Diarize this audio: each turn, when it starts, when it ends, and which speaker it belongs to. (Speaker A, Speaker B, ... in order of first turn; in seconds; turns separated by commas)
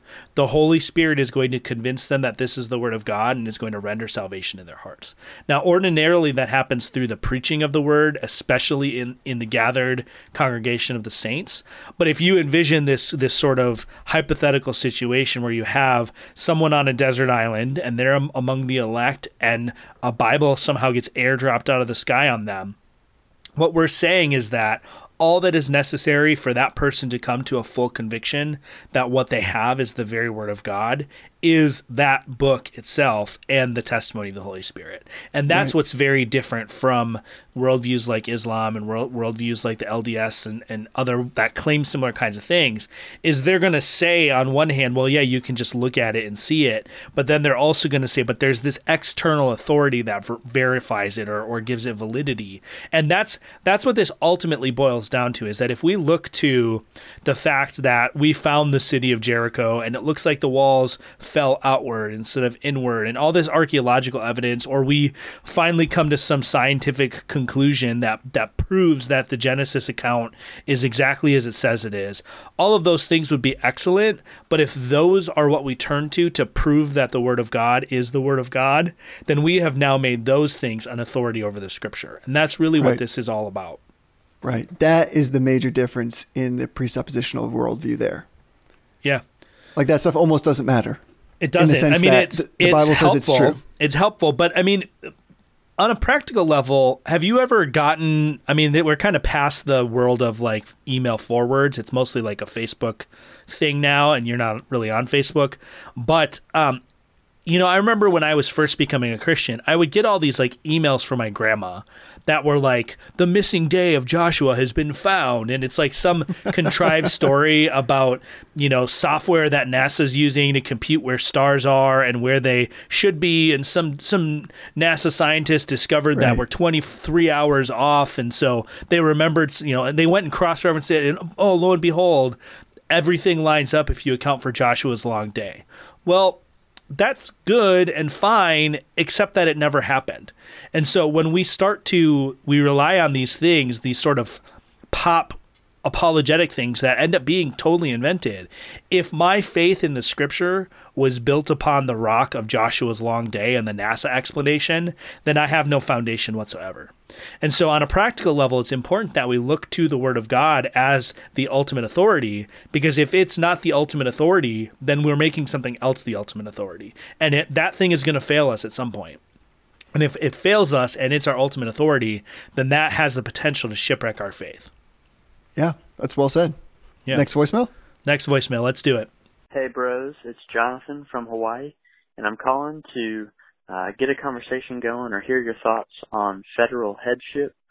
Speaker A: 0.3-22.8, Speaker A: 23.6-83.8, Speaker B: 35.5-35.8, Speaker B: 84.4-88.3, Speaker B: 89.8-91.0, Speaker A: 91.4-95.1, Speaker B: 91.6-93.6, Speaker A: 95.8-106.8, Speaker A: 107.5-132.4, Speaker B: 126.2-126.4, Speaker A: 132.9-144.4, Speaker A: 144.9-169.2, Speaker A: 169.9-174.7, Speaker B: 175.6-176.6, Speaker B: 177.1-177.7, Speaker A: 178.1-179.1, Speaker C: 179.5-187.5